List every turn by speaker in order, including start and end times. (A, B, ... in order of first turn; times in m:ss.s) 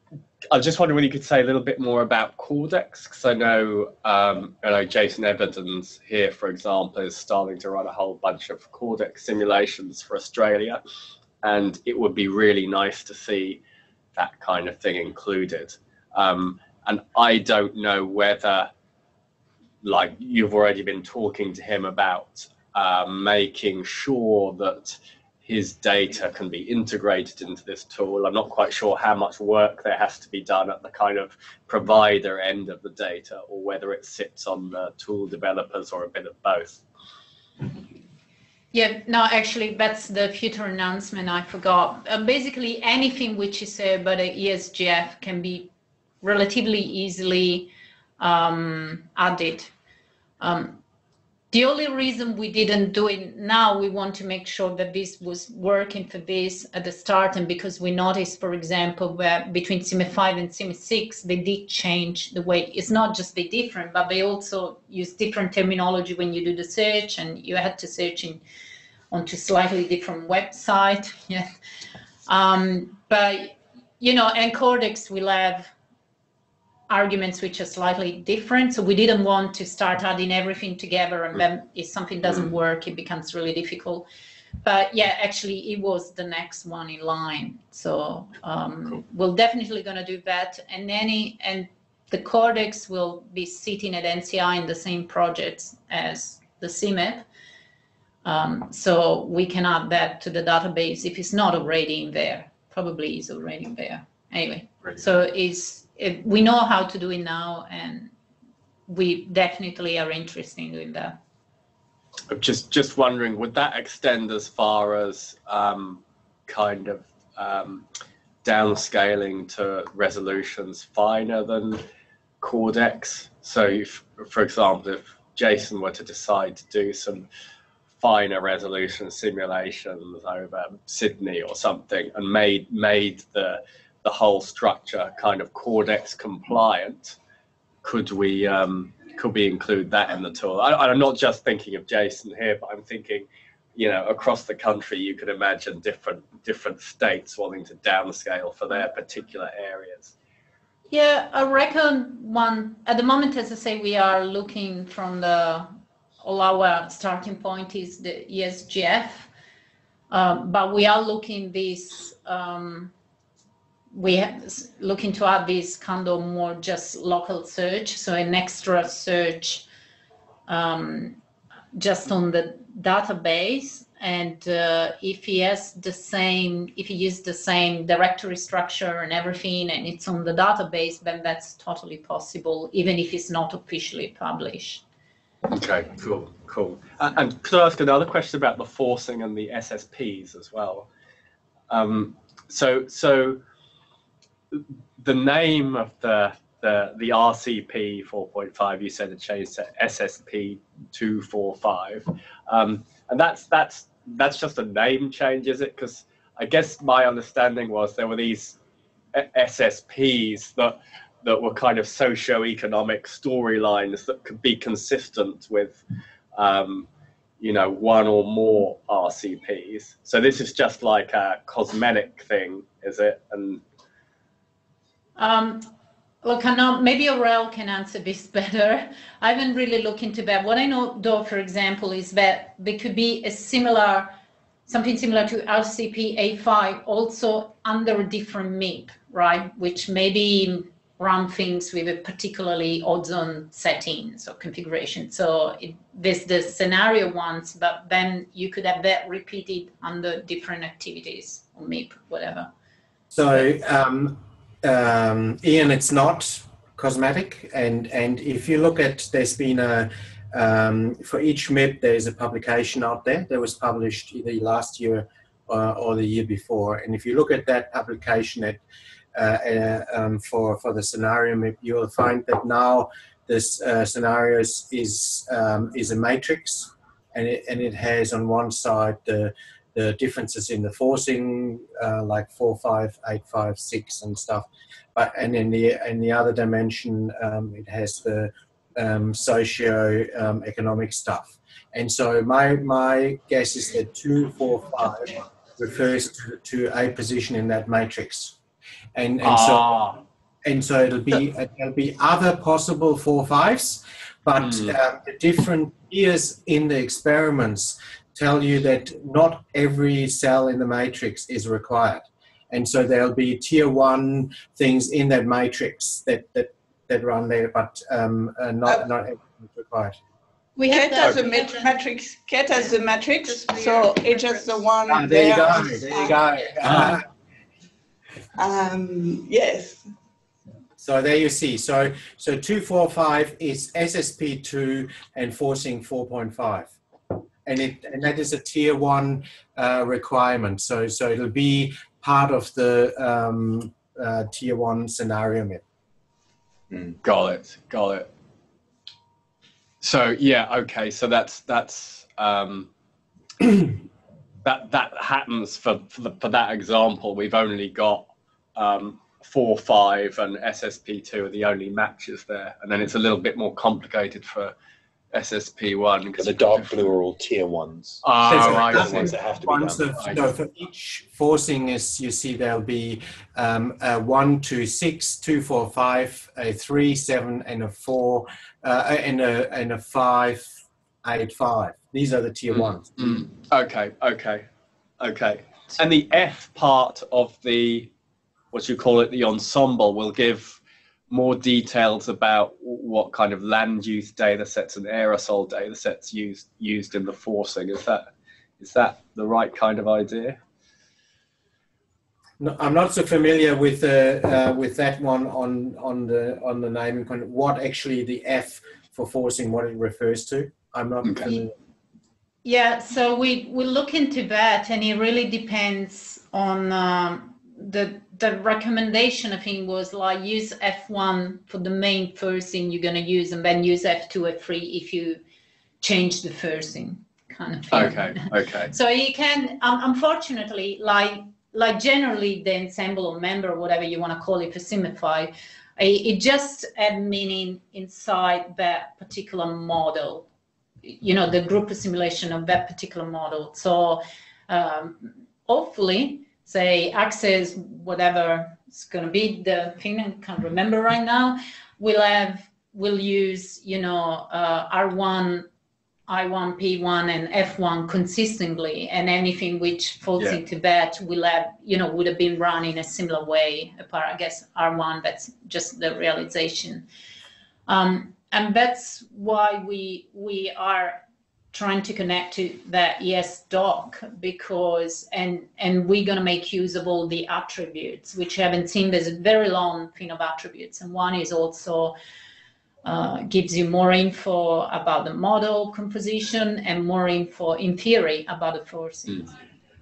0:00.5-0:10.8 A
0:11.4-0:13.6 A
0:14.2-0:18.7 A
0:19.8-0:36.8 A
0:38.7-0:45.7 B
0:46.2-0:49.7 B
0:50.4-0:50.8 B
0:51.5-1:08.4 B
1:09.1-1:11.5 B
1:12.3-1:15.7 B
1:16.9-1:24.1 B
1:24.6-1:37.2 B
1:38.2-1:48.1 B
1:48.9-1:51.2 B
1:52.3-1:57.8 A
1:58.4-2:01.8 A
2:02.4-2:07.3 A
2:08.0-2:17.2 A
2:17.8-2:30.1 A
2:30.9-2:35.7 B
2:36.2-2:39.3 B
2:40.1-2:42.9 B
2:43.9-2:49.7 B
2:50.5-2:51.2 B
2:51.7-3:04.8 B
3:05.5-3:10.9 A
3:11.7-3:13.4 A
3:14.5-3:28.6 A
3:29.1-3:35.8 A
3:36.3-3:36.9 A
3:37.4-3:43.6 A
3:45.2-3:45.6 B
3:46.2-3:54.2 B
3:54.7-4:12.5 B
4:13.1-4:28.6 C
4:29.2-4:58.4 C
4:58.9-4:59.8 C
4:59.2-5:00.0 A
5:00.4-5:20.0 C
5:04.4-5:04.8 A
5:20.6-5:21.7 D
5:20.7-5:27.0 E
5:22.6-5:26.2 D
5:24.9-5:27.0 C
5:28.4-5:29.9 E
5:30.8-5:36.8 C
5:37.4-5:45.6 C
5:47.0-5:48.1 A
5:49.8-5:52.7 A
5:54.4-6:04.5 A
6:05.1-6:06.9 A
6:06.2-6:10.2 F
6:08.0-6:09.1 A
6:08.2-6:23.2 C
6:22.5-6:24.5 A
6:25.0-6:27.9 A
6:28.5-6:30.6 A
6:31.1-6:38.1 A
6:38.6-6:40.4 A
6:42.4-6:51.5 C
6:51.0-6:51.3 A
6:52.4-7:05.2 B
7:05.8-7:20.3 B
7:07.7-7:08.7 A
7:20.8-7:35.5 B
7:36.1-7:46.9 B
7:47.7-7:51.0 B
7:51.5-8:02.0 B
8:02.8-8:09.3 B